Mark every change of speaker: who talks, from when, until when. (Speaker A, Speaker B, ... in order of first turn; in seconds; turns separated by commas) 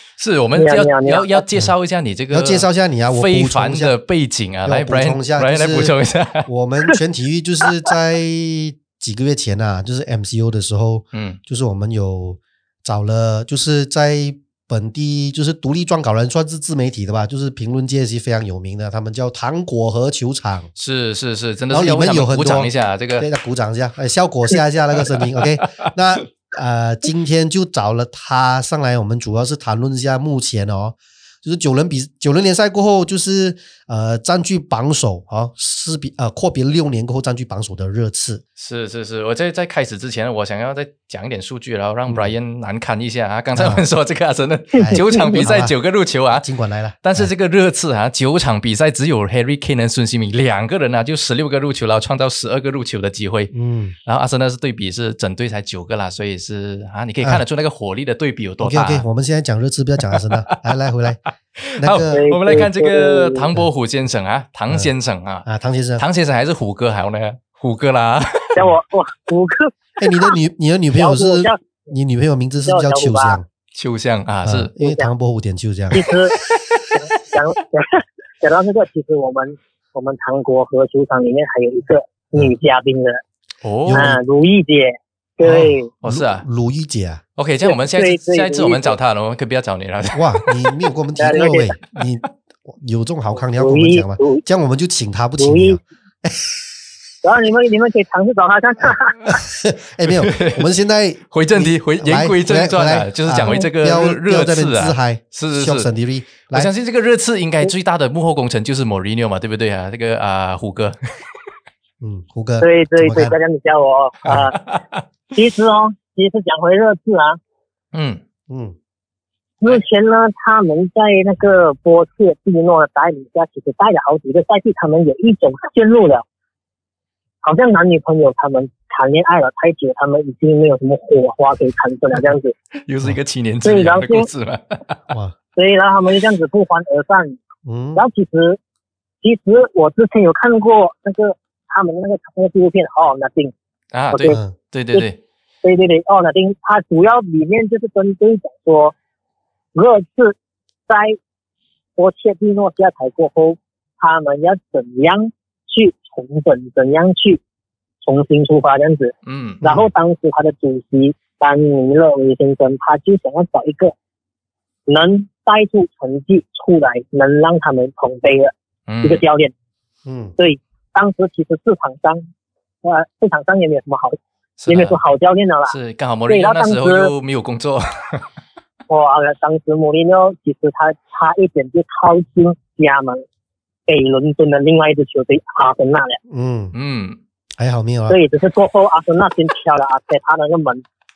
Speaker A: 0.2-6.5, Speaker B: 0.6-1.4, Speaker C: 2.3-3.9, Speaker C: 4.6-20.7, Speaker A: 11.1-11.4, Speaker A: 20.8-23.3, Speaker C: 21.7-38.4, Speaker A: 38.6-46.5, Speaker C: 42.1-42.3, Speaker C: 43.5-43.8, Speaker B: 44.7-45.5, Speaker C: 44.8-45.8, Speaker C: 46.3-47.3, Speaker A: 47.0-53.5, Speaker C: 53.5-54.0, Speaker A: 54.0-59.0, Speaker C: 58.6-61.2, Speaker A: 60.0-65.5, Speaker C: 61.8-62.2, Speaker B: 62.1-63.5, Speaker C: 65.4-66.0, Speaker A: 66.0-68.6, Speaker B: 68.5-70.3, Speaker C: 70.0-73.5, Speaker B: 71.0-71.6, Speaker B: 72.7-73.4, Speaker A: 73.7-74.7, Speaker C: 74.4-76.1, Speaker B: 74.8-75.1, Speaker B: 75.9-76.3, Speaker A: 76.1-77.0, Speaker B: 76.9-83.2, Speaker A: 83.6-84.1, Speaker C: 83.8-84.2, Speaker B: 83.9-85.9, Speaker C: 85.4-87.2, Speaker A: 86.0-86.4, Speaker A: 87.4-90.7, Speaker B: 87.6-89.0, Speaker C: 90.1-96.5, Speaker B: 91.2-91.7, Speaker B: 93.6-94.4, Speaker B: 95.4-95.8, Speaker B: 97.2-99.4, Speaker C: 99.3-106.7, Speaker A: 100.0-100.7, Speaker A: 101.3-105.9, Speaker A: 106.5-111.0, Speaker C: 112.0-113.3, Speaker B: 112.6-114.6, Speaker A: 114.2-115.0, Speaker B: 115.3-117.4, Speaker A: 117.9-118.2, Speaker C: 118.5-118.8, Speaker B: 119.6-126.2, Speaker B: 127.4-132.5, Speaker A: 132.7-135.0, Speaker B: 133.6-134.3, Speaker C: 135.1-135.3, Speaker B: 135.6-137.4, Speaker C: 137.6-138.0, Speaker B: 137.9-138.6, Speaker B: 139.2-143.5, Speaker A: 143.9-145.2, Speaker B: 144.1-144.4, Speaker C: 144.3-144.5, Speaker B: 145.6-148.9, Speaker B: 149.7-150.3, Speaker B: 150.9-151.2, Speaker B: 152.0-157.4, Speaker B: 158.0-163.9, Speaker A: 159.2-159.6, Speaker C: 159.6-159.9, Speaker B: 164.9-168.5, Speaker A: 168.9-169.2, Speaker B: 169.0-169.5, Speaker C: 170.1-170.3, Speaker B: 170.4-172.3, Speaker B: 172.8-174.2, Speaker A: 174.6-175.0, Speaker B: 174.7-175.7, Speaker A: 175.7-178.3, Speaker B: 176.3-177.1, Speaker B: 178.9-183.2, Speaker B: 183.9-186.2, Speaker C: 186.3-186.7, Speaker A: 186.7-187.2, Speaker C: 187.6-188.2, Speaker B: 188.1-190.8